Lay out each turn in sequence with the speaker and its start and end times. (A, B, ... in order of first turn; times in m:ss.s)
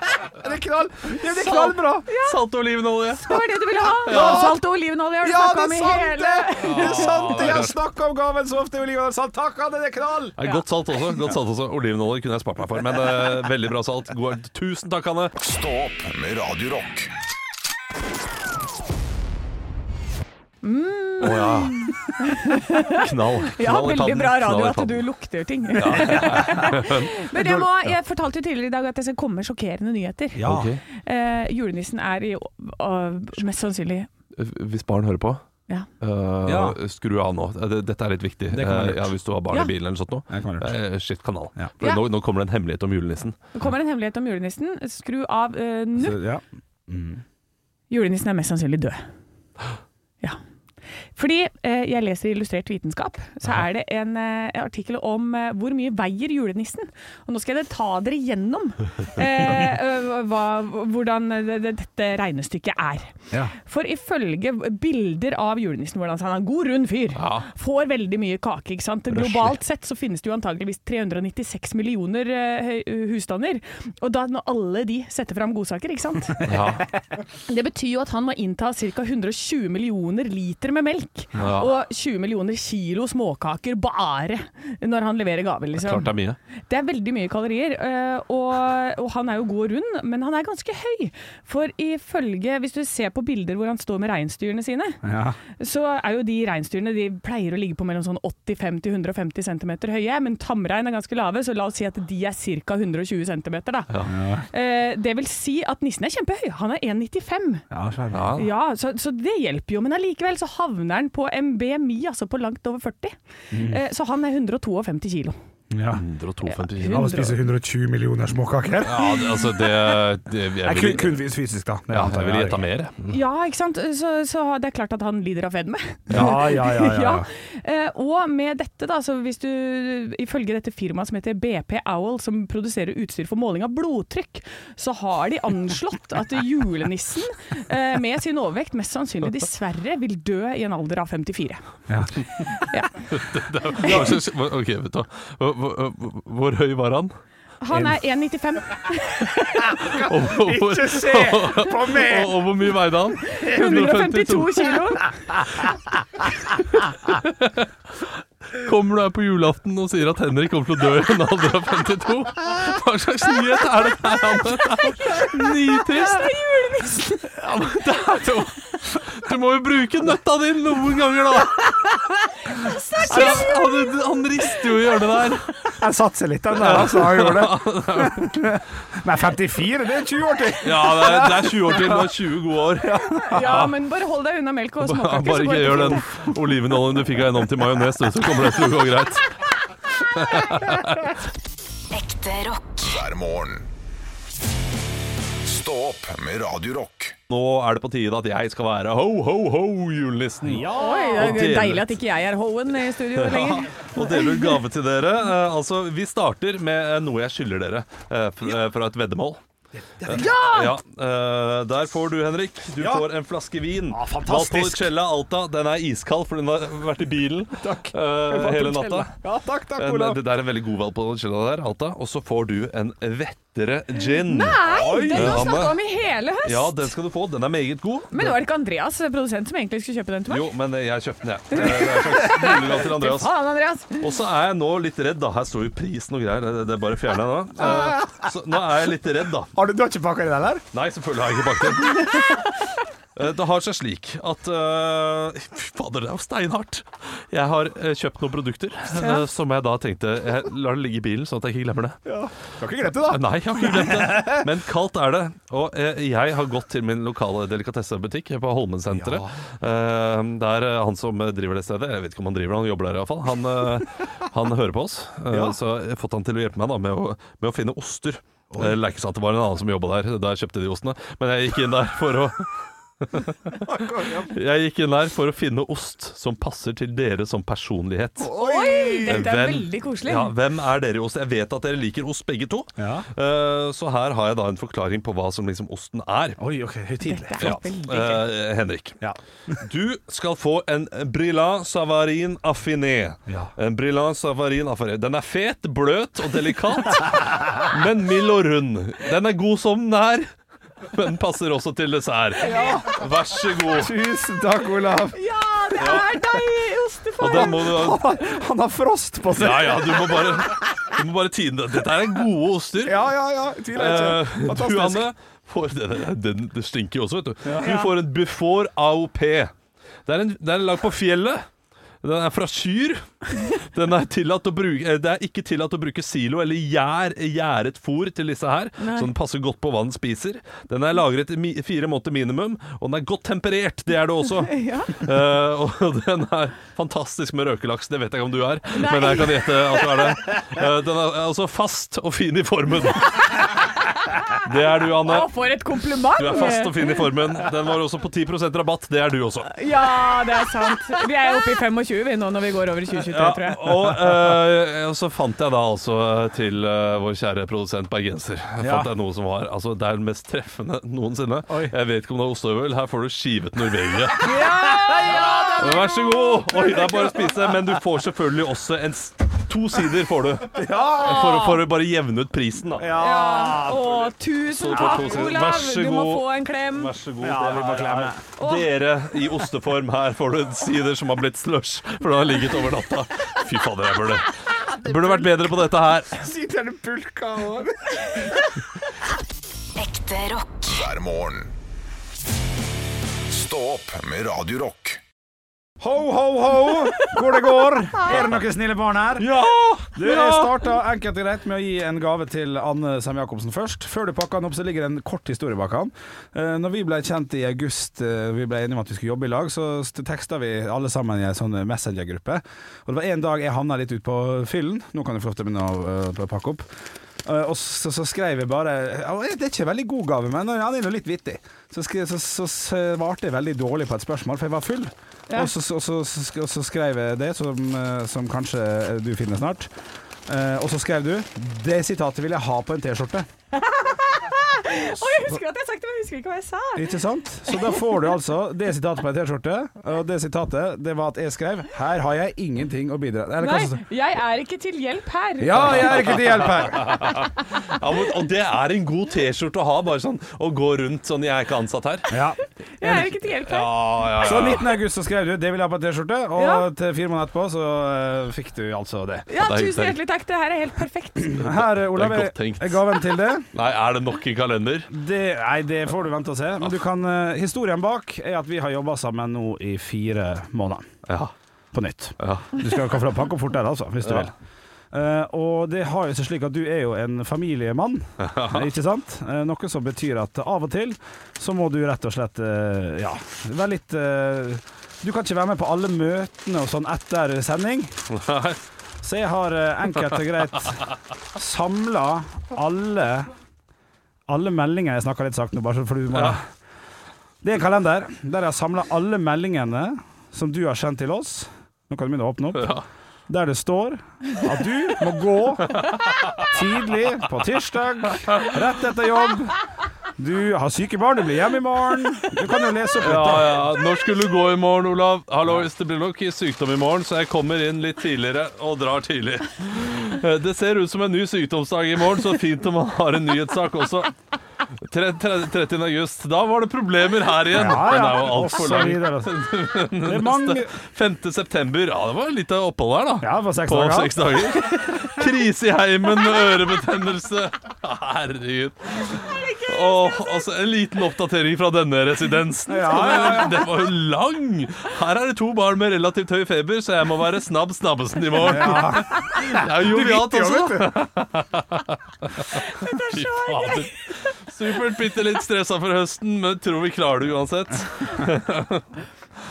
0:00.2-0:02.1 A
0:01.4-0:02.4 B
0:02.1-0:03.4 C
0:03.2-0:07.1 B
0:04.0-0:04.6 C
0:04.0-0:04.6 A
0:05.2-0:10.4 A
0:06.6-0:07.7 C
0:10.4-0:15.3 C
0:15.4-0:17.1 D
0:20.6-0:34.1 B
0:21.2-0:22.0 C
0:22.9-0:25.0 C
0:25.7-0:27.2 C
0:26.1-0:26.7 A
0:27.3-0:27.9 A
0:30.3-0:30.7 A
0:30.4-0:30.8 C
0:34.3-0:35.4 C
0:36.0-0:43.4 C
0:36.4-0:36.8 A
0:38.5-0:39.1 A
0:40.3-0:40.8 A
0:43.5-0:46.2 B
0:46.0-0:47.2 A
0:47.9-0:49.0 B
0:51.1-1:16.5 B
1:07.2-1:07.5 C
1:09.1-1:09.5 C
1:16.4-1:16.8 C
1:17.4-1:26.1 B
1:21.4-1:21.7 C
1:25.8-1:26.4 C
1:26.7-1:35.0 B
1:35.0-1:35.4 A
1:35.6-1:43.9 B
1:44.0-1:44.4 A
1:44.5-1:47.6 B
1:47.7-1:48.4 A
1:48.1-1:48.5 C
1:48.3-1:55.4 B
1:53.5-1:53.8 A
1:55.7-1:56.0 A
1:55.9-1:57.1 C
1:56.5-1:57.4 B
1:56.8-1:59.2 A
1:58.8-2:01.2 C
1:59.3-1:59.7 B
2:00.6-2:02.6 A
2:01.9-2:03.2 C
2:03.1-2:21.6 B
2:06.1-2:07.2 A
2:06.1-2:06.4 C
2:21.9-2:22.2 A
2:22.5-2:23.1 B
2:23.1-2:27.1 C
2:23.8-2:24.1 B
2:23.8-2:24.1 A
2:27.6-2:29.8 B
2:27.7-2:28.0 A
2:29.7-2:32.4 A
2:29.9-2:34.8 C
2:33.3-2:35.1 B
2:37.1-2:46.3 C
2:44.5-2:47.4 B
2:47.4-2:52.0 C
2:52.4-2:55.0 B
2:53.0-2:55.5 C
2:53.1-2:53.4 A
2:55.8-3:02.2 A
2:56.5-2:58.3 C
3:00.6-3:03.7 C
3:02.8-3:03.7 A
3:03.1-3:06.1 B
3:04.8-3:09.3 C
3:10.0-3:11.2 C
3:11.9-3:12.9 E
3:12.8-3:13.7 D
3:15.4-3:17.1 D
3:17.3-3:22.0 C
3:20.4-3:21.5 A
3:20.7-3:24.6 B
3:23.1-3:29.4 C
3:29.8-3:30.7 A
3:30.0-3:39.1 C
3:32.8-3:33.1 A
3:33.9-3:34.9 A
3:37.6-3:40.2 A
3:38.4-3:39.0 B
3:39.8-3:45.8 C
3:44.1-3:46.9 B
3:44.6-3:45.6 A
3:46.4-3:48.4 C
3:48.1-3:50.5 B
3:50.3-3:53.3 C
3:51.5-3:54.0 B
3:54.0-3:59.5 C
3:57.6-3:58.2 A
3:59.5-4:00.6 A
4:00.7-4:02.4 C
4:02.1-4:02.4 B
4:03.1-4:12.0 C
4:08.9-4:09.2 B
4:12.0-4:14.5 A
4:13.1-4:32.5 C
4:18.9-4:19.3 A
4:25.3-4:25.6 A
4:28.5-4:28.8 A
4:33.0-4:33.6 C
4:33.6-4:34.4 A
4:34.2-4:38.3 C
4:38.2-4:39.3 A
4:38.3-4:40.3 B
4:39.0-4:46.4 C
4:42.8-4:43.1 A
4:46.4-4:47.6 A
4:47.0-4:48.3 B
4:47.4-4:49.0 C
4:49.0-4:49.6 A
4:49.6-5:00.3 C
5:00.9-5:03.9 C
5:02.4-5:03.0 A
5:03.7-5:05.2 A
5:05.1-5:07.8 B
5:05.8-5:06.0 C
5:07.2-5:08.0 C
5:07.2-5:10.7 A
5:09.3-5:13.0 C
5:12.8-5:15.1 A
5:13.7-5:19.5 C
5:17.4-5:17.8 A
5:17.6-5:17.9 B
5:20.0-5:21.4 C
5:22.0-5:43.5 C
5:28.8-5:29.1 B
5:34.4-5:35.0 B
5:38.8-5:39.8 B
5:44.4-5:45.3 C
5:45.0-5:47.0 B
5:46.2-5:49.5 C
5:49.5-5:53.8 B
5:53.0-6:04.4 C
5:58.6-5:58.9 A
6:01.5-6:01.7 A
6:04.2-6:07.1 B
6:04.4-6:06.2 A
6:05.6-6:12.9 C
6:10.5-6:11.6 A
6:12.8-6:14.1 A
6:13.0-6:16.9 B
6:14.5-6:26.2 C
6:14.7-6:15.4 A
6:17.2-6:18.2 A
6:18.4-6:18.7 B
6:24.7-6:25.2 A
6:26.2-6:28.5 A
6:29.8-6:30.7 E
6:30.6-6:31.5 D
6:33.3-6:35.0 D
6:35.8-6:39.4 A
6:38.0-6:38.4 C
6:39.2-6:40.5 C
6:39.9-6:56.6 A
6:57.2-7:09.7 A
7:10.3-7:13.3 A
7:13.5-7:18.1 B
7:16.7-7:23.8 A
7:23.4-7:26.2 B
7:25.4-7:27.2 A
7:25.7-7:32.1 C
7:32.1-7:33.0 A
7:32.8-7:34.5 B
7:33.5-7:34.7 C
7:34.2-7:39.3 A
7:36.4-7:36.6 B
7:39.3-7:41.4 B
7:39.4-7:40.0 C
7:41.2-7:43.5 A
7:41.3-7:43.0 C
7:43.5-7:44.9 C
7:44.9-7:50.9 A
7:51.0-7:51.3 C
7:51.7-7:54.3 A
7:52.2-7:52.6 C
7:54.0-7:54.3 C
7:54.9-8:07.9 A
7:58.2-7:58.7 C
8:08.1-8:08.6 C
8:09.0-8:10.8 A
8:11.3-8:13.3 A
8:14.3-8:16.4 A
8:16.1-8:16.4 C
8:17.4-8:22.8 A
8:22.5-8:22.8 C
8:23.3-8:25.8 A
8:25.6-8:26.5 C
8:26.4-8:29.6 A
8:28.2-8:28.5 C
8:30.2-8:33.6 A
8:33.0-8:44.1 C
8:44.8-9:18.9 C
8:47.5-8:49.3 A
8:50.0-8:50.7 A
8:53.2-8:54.2 A
8:59.2-9:00.5 B
9:02.7-9:03.7 A
9:08.3-9:11.0 A
9:12.5-9:14.2 B